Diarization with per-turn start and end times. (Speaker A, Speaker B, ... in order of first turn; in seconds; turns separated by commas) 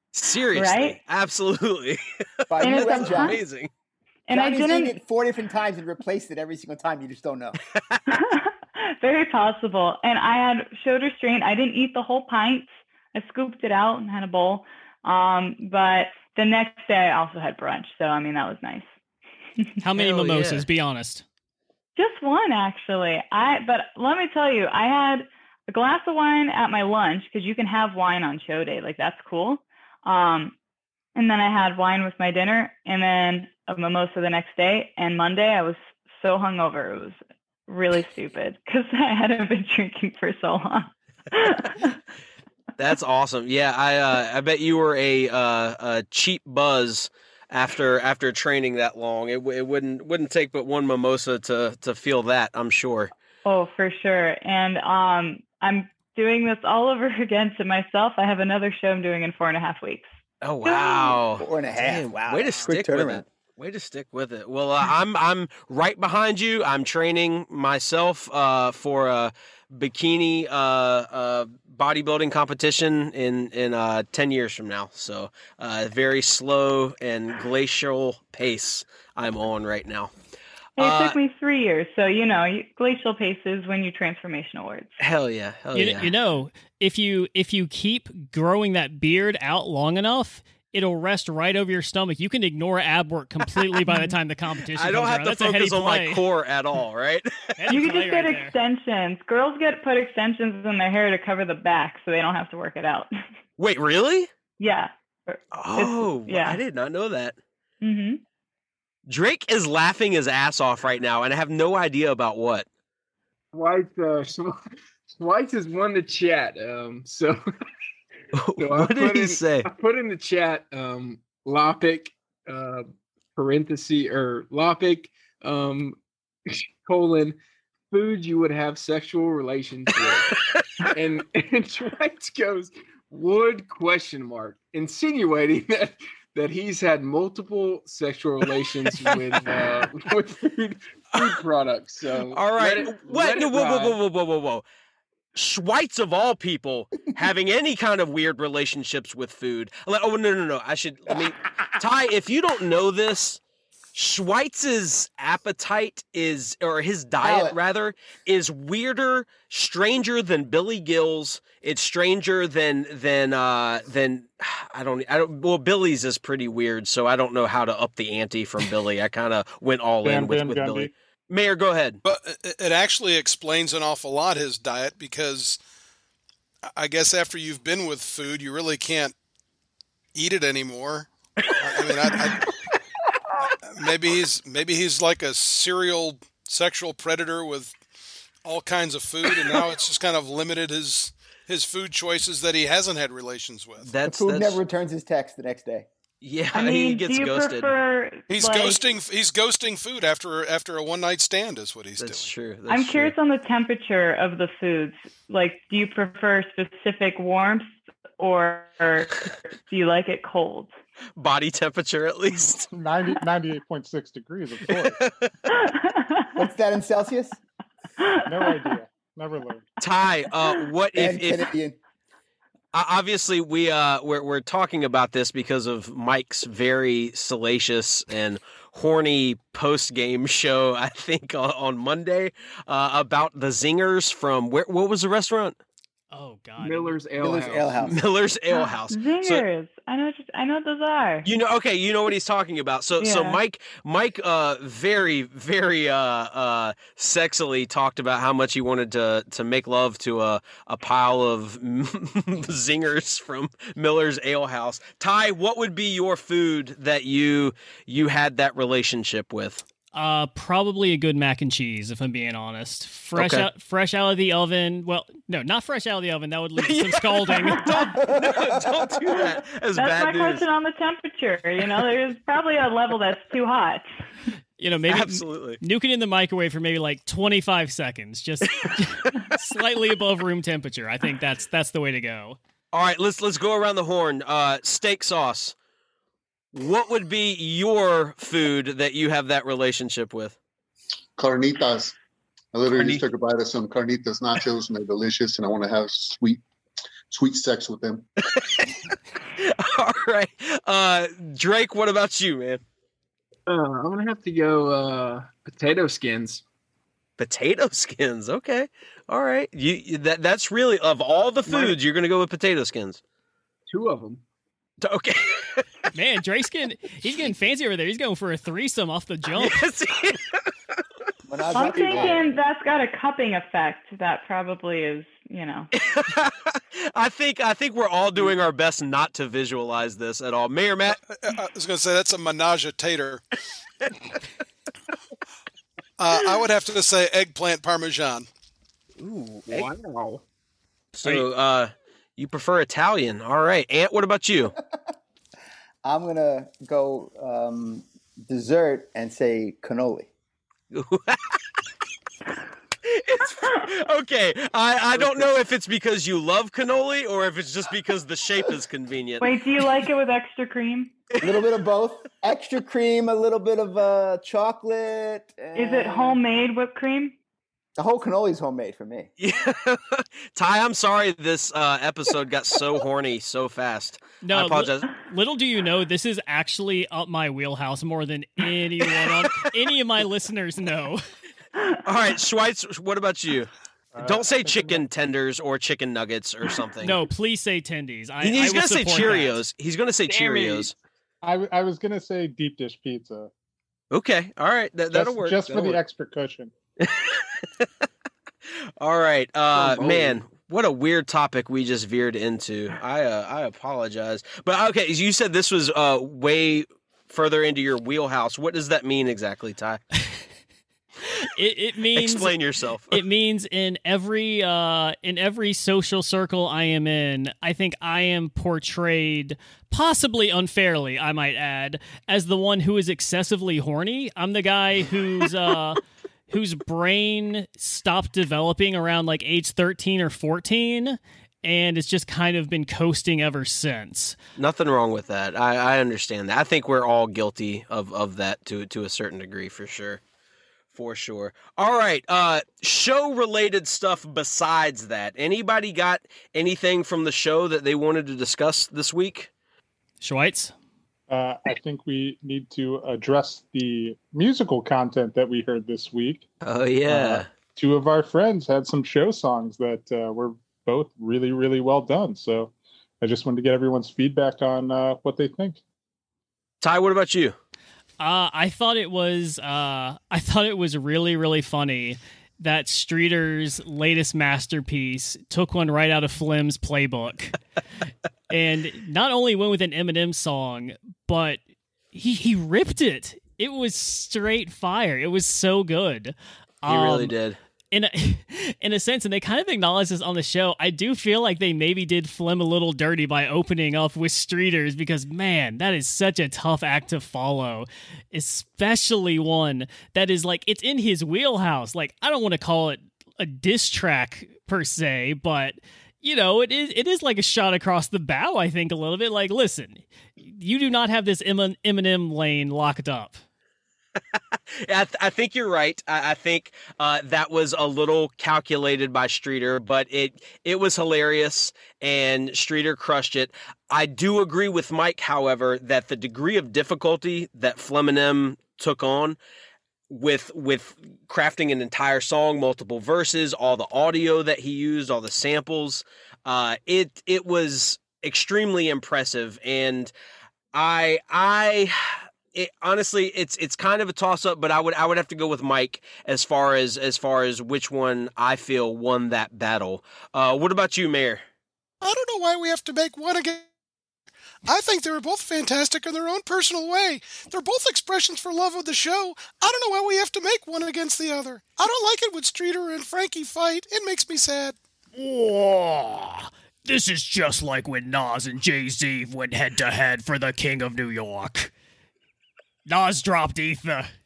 Speaker A: 0.1-3.7, Speaker B: 0.5-1.0, Speaker C: 2.5-3.4, Speaker B: 2.6-3.4, Speaker B: 4.3-4.9, Speaker C: 4.3-7.6, Speaker A: 7.7-8.0, Speaker B: 8.1-18.9, Speaker D: 19.8-21.2, Speaker A: 20.0-20.6, Speaker B: 21.9-30.5, Speaker B: 31.1-42.0, Speaker A: 42.8-53.1, Speaker B: 53.4-60.0, Speaker A: 60.4-80.1, Speaker B: 60.6-61.2, Speaker C: 61.4-63.2, Speaker B: 80.8-85.0, Speaker A: 80.8-81.2, Speaker A: 85.0-86.1, Speaker D: 85.7-96.2, Speaker A: 94.7-97.5, Speaker D: 97.5-98.5, Speaker B: 97.7-103.1, Speaker A: 103.6-104.3, Speaker B: 104.6-106.6, Speaker A: 105.5-107.4, Speaker B: 107.8-108.2, Speaker A: 109.1-112.7, Speaker E: 113.5-114.6, Speaker E: 115.1-117.4, Speaker A: 118.3-119.7, Speaker E: 118.6-126.0, Speaker E: 126.5-127.4, Speaker E: 127.9-144.0, Speaker A: 141.1-141.4, Speaker A: 142.3-144.6, Speaker A: 145.3-153.4, Speaker A: 153.9-172.0, Speaker C: 157.2-157.6, Speaker F: 170.0-170.9, Speaker G: 172.0-175.6, Speaker G: 176.7-179.1, Speaker G: 180.1-182.5, Speaker G: 183.6-187.7, Speaker G: 188.4-193.9, Speaker A: 193.8-194.6, Speaker C: 194.1-195.9, Speaker A: 196.2-197.7, Speaker B: 196.5-198.9, Speaker G: 198.3-202.3, Speaker A: 202.0-203.1, Speaker B: 202.7-210.7, Speaker A: 211.2-212.7, Speaker F: 212.7-215.0, Speaker A: 214.7-215.3, Speaker B: 215.5-216.3, Speaker C: 216.3-217.4, Speaker B: 218.0-218.7, Speaker F: 218.3-219.6, Speaker A: 219.8-221.5, Speaker C: 220.9-221.8, Speaker A: 222.7-235.6, Speaker D: 236.1-236.9, Speaker E: 236.6-237.9, Speaker C: 237.2-238.0, Speaker A: 237.8-239.4, Speaker B: 238.5-241.3, Speaker A: 241.2-259.6, Speaker B: 243.0-243.4, Speaker D: 259.9-267.7, Speaker A: 263.1-263.5, Speaker A: 266.6-270.4, Speaker B: 267.6-267.9, Speaker C: 268.0-268.9, Speaker B: 269.1-273.8, Speaker D: 274.6-282.4, Speaker A: 274.9-275.6, Speaker A: 282.7-285.5, Speaker A: 286.5-290.4, Speaker H: 291.2-291.9, Speaker H: 292.5-296.4, Speaker A: 292.7-293.0, Speaker H: 297.1-298.0, Speaker A: 298.3-298.8, Speaker A: 299.4-302.6, Speaker E: 303.5-306.4, Speaker A: 307.2-313.0, Speaker E: 311.5-311.8, Speaker E: 313.7-314.2, Speaker A: 314.8-315.6, Speaker D: 315.9-319.6, Speaker A: 319.3-320.5, Speaker C: 321.3-322.4, Speaker B: 321.5-325.7, Speaker A: 325.8-331.0, Speaker G: 331.0-333.2, Speaker G: 336.0-338.3, Speaker A: 339.0-339.7, Speaker E: 339.5-340.2, Speaker A: 340.9-344.6, Speaker C: 345.8-350.1, Speaker A: 350.7-351.4, Speaker A: 352.8-359.3, Speaker C: 354.9-355.2, Speaker B: 359.2-360.9, Speaker C: 361.2-366.2, Speaker B: 365.5-367.1, Speaker C: 367.8-369.1, Speaker A: 369.2-374.9, Speaker D: 374.2-381.0, Speaker A: 381.8-383.5, Speaker F: 383.9-384.8, Speaker A: 384.0-387.0, Speaker D: 386.8-389.4, Speaker A: 388.2-390.7, Speaker E: 390.1-390.7, Speaker F: 391.2-393.3, Speaker A: 393.9-395.8, Speaker F: 394.9-396.5, Speaker A: 396.8-397.7, Speaker A: 398.8-409.8, Speaker E: 399.5-400.2, Speaker D: 411.1-412.3, Speaker A: 411.9-413.0, Speaker D: 412.9-434.2, Speaker A: 434.4-440.0, Speaker A: 440.7-449.3, Speaker D: 450.0-450.5, Speaker F: 451.1-456.2, Speaker A: 456.4-457.3, Speaker F: 456.9-465.6, Speaker A: 466.6-467.3, Speaker D: 468.0-477.4, Speaker D: 478.3-481.4, Speaker D: 481.9-487.1, Speaker A: 486.7-487.4, Speaker D: 487.7-513.2, Speaker A: 514.5-529.2, Speaker A: 529.9-539.9, Speaker A: 540.5-551.2, Speaker G: 551.8-553.5, Speaker G: 554.5-564.5, Speaker D: 564.9-571.5, Speaker D: 572.7-573.9